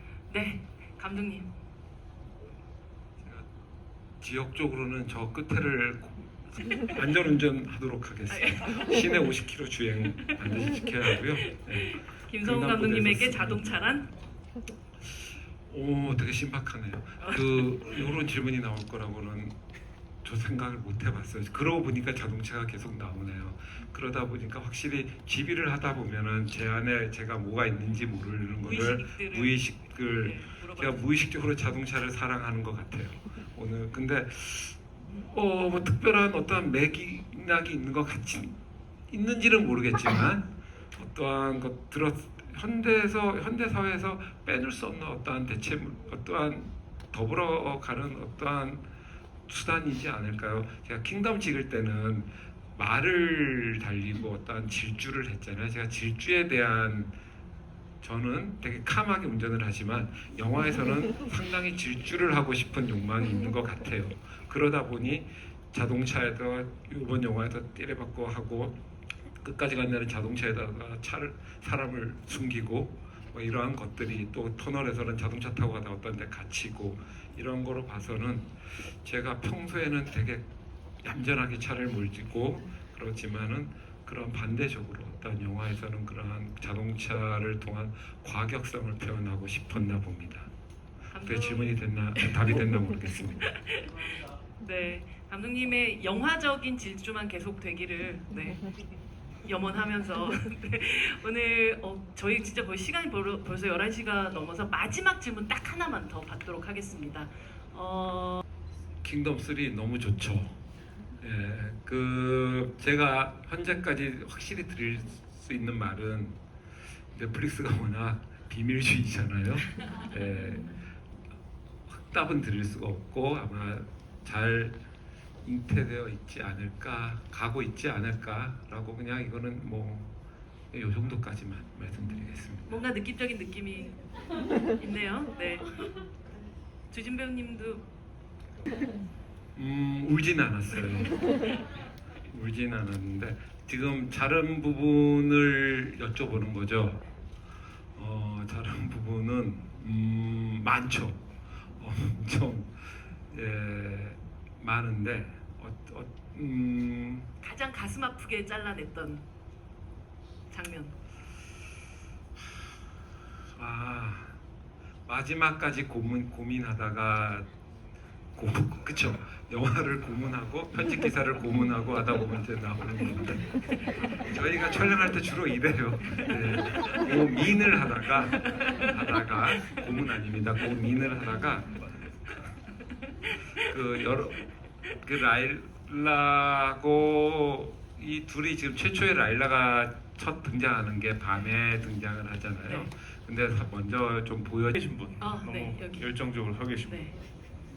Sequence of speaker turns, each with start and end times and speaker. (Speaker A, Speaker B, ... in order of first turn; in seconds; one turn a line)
Speaker A: 0.3-1.5
Speaker B: 4.2-13.9
Speaker A: 8.3-9.1
Speaker A: 11.6-14.1
Speaker B: 15.7-19.6
Speaker A: 17.2-17.5
Speaker B: 20.2-38.6
Speaker A: 28.6-31.1
Speaker B: 39.1-48.8
Speaker B: 49.5-57.1
Speaker B: 58.0-68.8
Speaker B: 69.4-80.5
Speaker B: 81.0-90.5
Speaker A: 91.1-92.4
Speaker B: 91.2-93.6
Speaker A: 93.4-98.7
Speaker A: 99.5-108.4
Speaker B: 109.0-110.6
Speaker B: 111.2-116.4
Speaker B: 117.1-120.8
Speaker A: 120.4-120.8
Speaker B: 121.9-124.8
Speaker B: 125.4-130.1
Speaker B: 130.7-132.9
Speaker A: 132.7-134.0
Speaker A: 134.8-135.7
Speaker A: 136.9-137.8
Speaker B: 139.6-141.2
Speaker B: 142.3-147.0
Speaker B: 147.9-151.2
Speaker B: 151.8-157.3
Speaker A: 157.4-159.2
Speaker A: 160.5-160.9
Speaker B: 163.6-164.4
Speaker B: 165.1-167.5
Speaker B: 168.4-173.5
Speaker B: 174.1-181.8
Speaker A: 178.5-178.9
Speaker B: 183.6-194.8
Speaker C: 194.8-197.2
Speaker A: 195.2-196.1
Speaker A: 196.8-197.2